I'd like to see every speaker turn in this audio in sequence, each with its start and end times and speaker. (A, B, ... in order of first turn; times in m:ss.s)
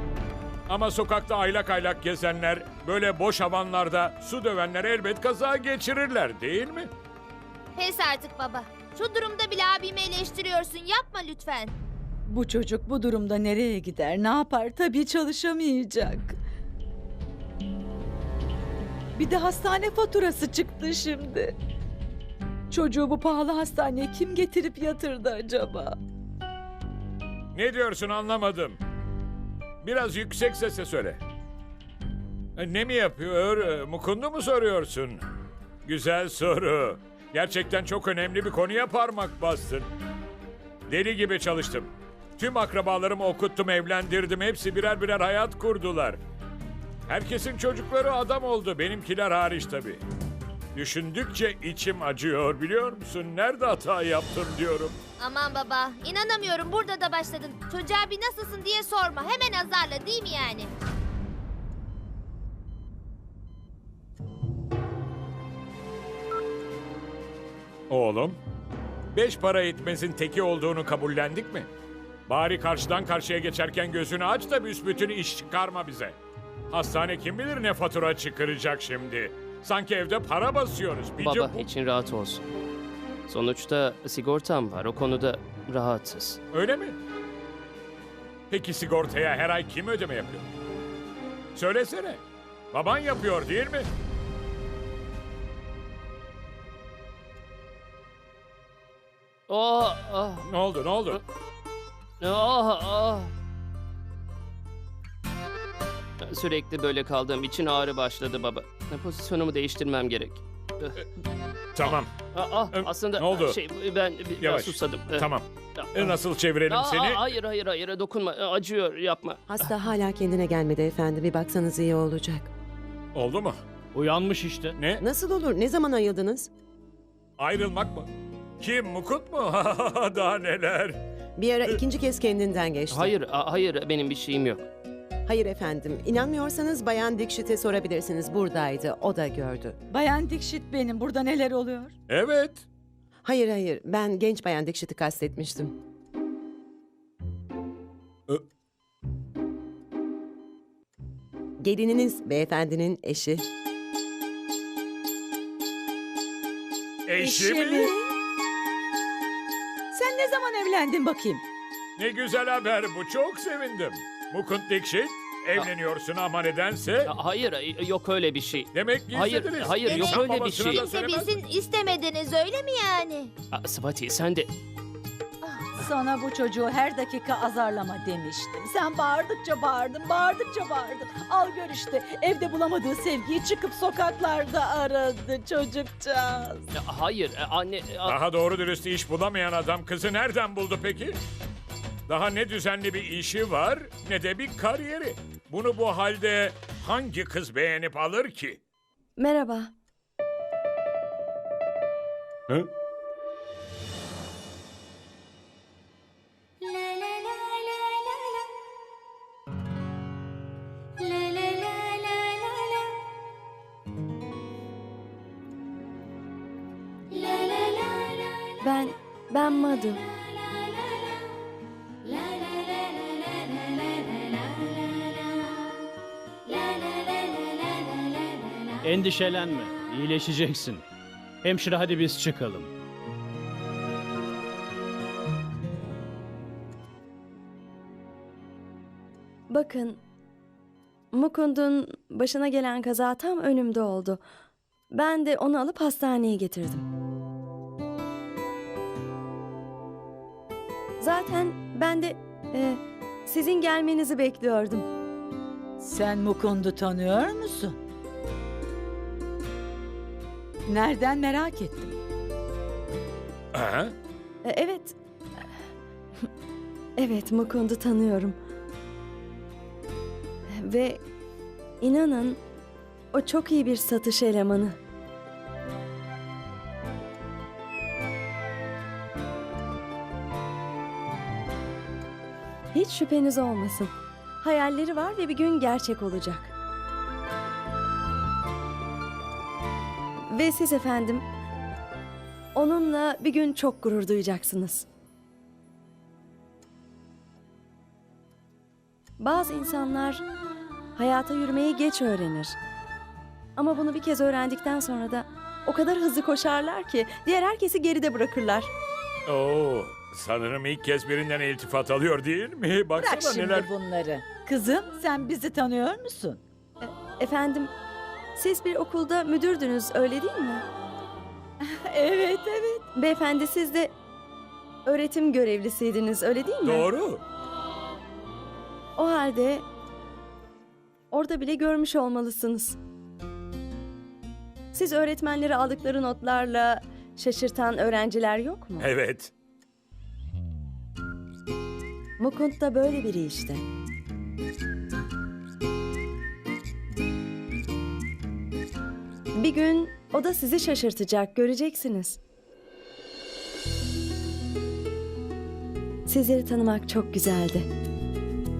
0:00.7-0:06.9 A
0:07.8-0:11.7 B
0:12.3-0:16.4 C
0:19.2-0:21.5 C
0:22.7-0:26.0 C
0:27.5-0:28.8 A
0:29.8-0:31.2 A
0:32.6-0:35.2 A
0:35.8-0:39.9 A
0:40.9-0:46.2 A
0:47.1-0:50.0 A
0:50.7-0:55.0 A
0:55.2-1:00.7 B
1:07.9-1:08.4 A
1:09.1-1:11.7 A
1:12.3-1:16.2 A
1:16.7-1:21.6 A
1:21.2-1:22.4 D
1:23.3-1:26.4 D
1:26.5-1:27.0 A
1:28.5-1:30.4 A
1:31.5-1:32.2 A
1:32.7-1:33.9 A
1:39.5-1:40.4 D
1:40.4-1:41.2 A
1:42.2-1:43.3 D
1:46.2-1:51.0 D
1:51.7-1:52.1 A
1:51.8-1:56.2 D
1:52.7-1:53.6 A
1:54.4-1:57.2 A
1:56.7-1:59.7 D
1:59.5-2:02.5 E
2:03.1-2:03.6 A
2:03.9-2:04.8 F
2:04.7-2:05.0 A
2:05.0-2:06.5 E
2:07.4-2:08.1 A
2:08.6-2:11.0 A
2:11.4-2:13.1 E
2:12.9-2:14.7 D
2:15.2-2:19.8 E
2:19.9-2:21.9 C
2:22.1-2:22.6 A
2:23.2-2:25.7 E
2:31.6-2:33.4 E
2:37.0-2:37.9 A
2:37.2-2:38.1 C
2:39.9-2:41.4 C
2:42.0-2:47.1 A
2:47.1-2:50.8 D
2:48.7-2:51.3 A
2:49.8-2:53.3 B
2:53.5-2:54.5 D
2:55.8-3:06.7 C
3:06.7-3:08.2 D
3:08.0-3:11.2 A
3:12.1-3:18.6 A
3:19.2-3:19.7 G
3:38.6-3:40.0 G
3:48.8-3:50.8 F
3:51.4-3:52.7 F
3:59.5-4:00.0 G
4:01.1-4:04.2 G
4:04.9-4:06.8 G
4:11.0-4:14.9 G
4:15.8-4:17.8 C
4:20.6-4:22.0 C
4:23.5-4:23.9 A
4:24.4-4:25.0 G
4:27.0-4:28.4 G
4:30.5-4:31.0 G
4:31.8-4:32.4 G
4:33.1-4:34.8 G
4:42.7-4:46.5 G
4:50.3-4:51.2 G
4:52.5-4:54.8 G
4:59.2-5:00.2 G
5:01.0-5:02.6 G
5:03.6-5:08.7 G
5:09.3-5:13.7 A
5:13.0-5:16.4 C
5:16.8-5:17.7 G
5:18.4-5:20.6 G
5:21.7-5:22.8 C
5:22.9-5:23.9 G
5:24.8-5:26.9 G
5:26.6-5:27.2 A
5:29.0-5:29.6 G
5:31.1-5:32.8 G
5:34.7-5:38.9 G
5:38.8-5:39.3 A
5:42.2-5:43.6 G
5:49.3-5:52.2 G
5:56.0-5:57.7 G